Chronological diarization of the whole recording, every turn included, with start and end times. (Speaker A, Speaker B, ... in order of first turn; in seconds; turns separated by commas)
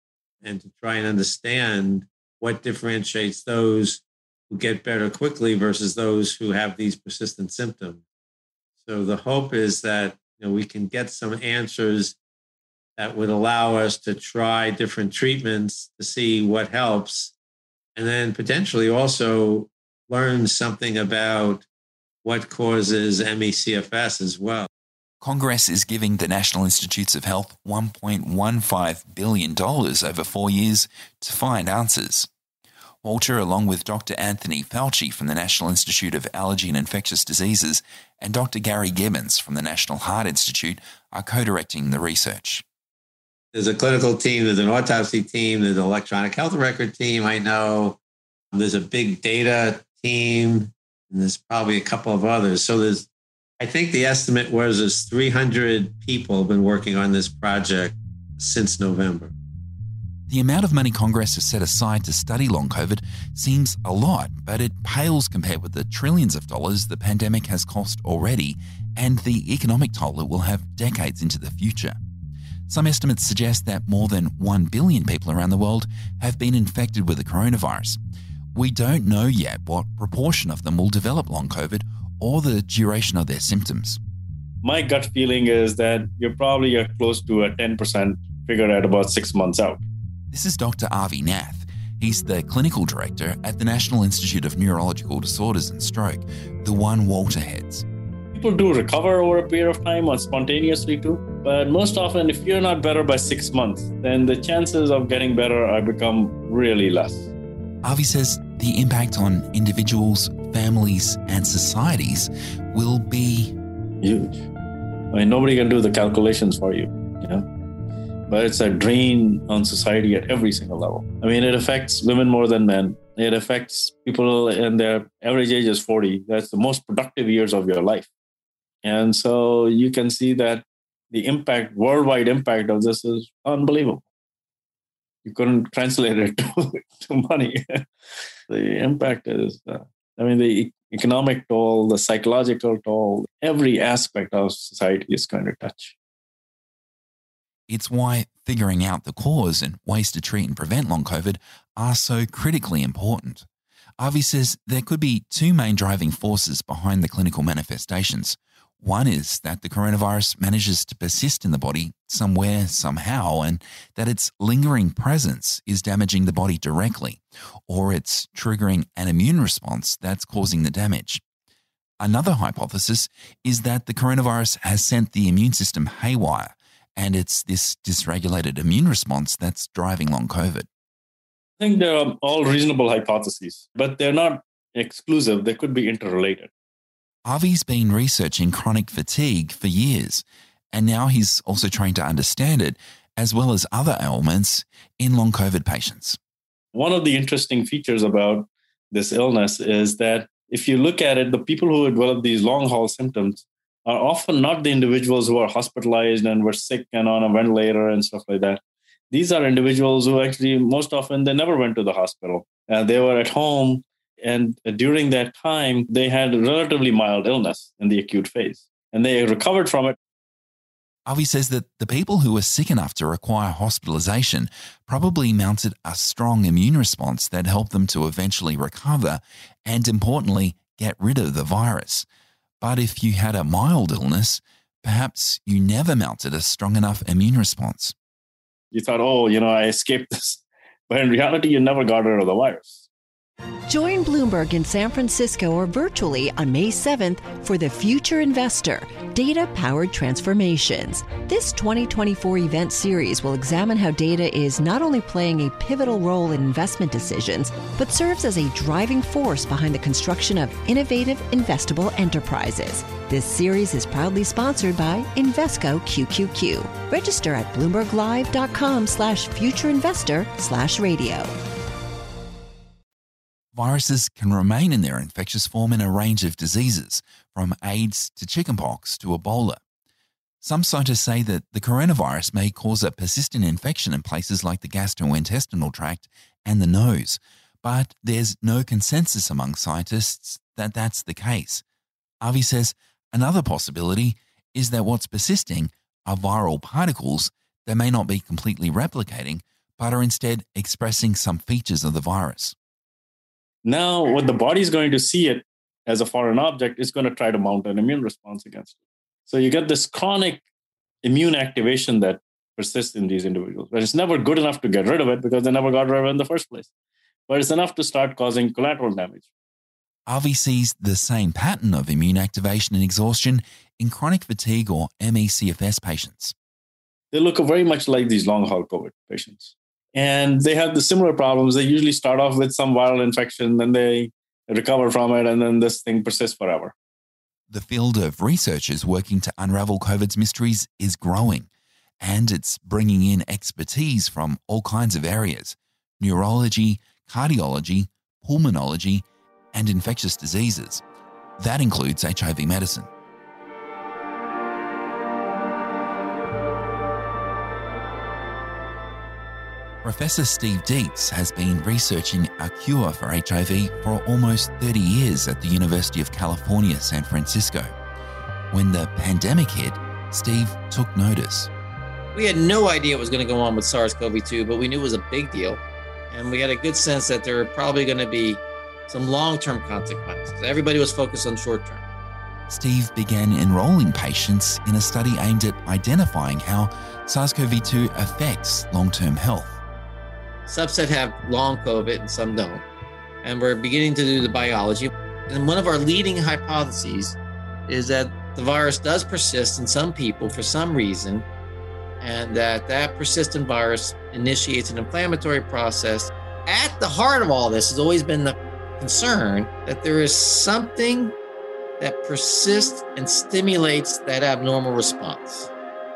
Speaker A: 0.4-8.0, Speaker A: 8.8-12.2, Speaker A: 13.0-17.3, Speaker A: 17.9-21.6, Speaker A: 22.2-24.7, Speaker B: 25.2-32.3, Speaker B: 33.0-42.6, Speaker A: 43.5-48.0, Speaker A: 48.5-53.1, Speaker A: 53.6-59.3, Speaker B: 60.3-72.0, Speaker B: 72.7-78.0, Speaker B: 78.5-84.0, Speaker C: 84.6-89.8, Speaker B: 90.3-97.8, Speaker C: 98.3-107.3, Speaker B: 107.8-113.5, Speaker C: 114.0-114.5, Speaker C: 115.1-117.5, Speaker C: 118.3-128.1, Speaker C: 128.8-134.0, Speaker C: 135.2-137.8, Speaker C: 138.5-145.9, Speaker B: 147.7-153.4, Speaker B: 154.0-171.2, Speaker B: 172.0-180.7, Speaker C: 181.6-186.5, Speaker B: 187.2-196.2, Speaker C: 196.7-208.6, Speaker C: 209.1-219.9, Speaker B: 221.1-232.1, Speaker B: 232.6-237.9, Speaker C: 238.7-242.8, Speaker D: 243.7-271.3, Speaker B: 273.5-279.6, Speaker B: 280.4-291.6, Speaker B: 292.2-302.5, Speaker C: 303.6-308.8, Speaker C: 309.3-310.4, Speaker C: 311.0-316.7, Speaker C: 317.3-319.3, Speaker B: 320.1-326.3, Speaker C: 327.1-336.7, Speaker B: 337.5-341.5, Speaker B: 342.0-350.8, Speaker B: 351.4-352.9, Speaker B: 359.8-367.7, Speaker B: 368.5-371.5, Speaker E: 372.1-381.8, Speaker B: 382.5-389.6, Speaker E: 390.5-392.6, Speaker E: 393.2-401.2, Speaker E: 402.0-411.1, Speaker E: 411.8-415.5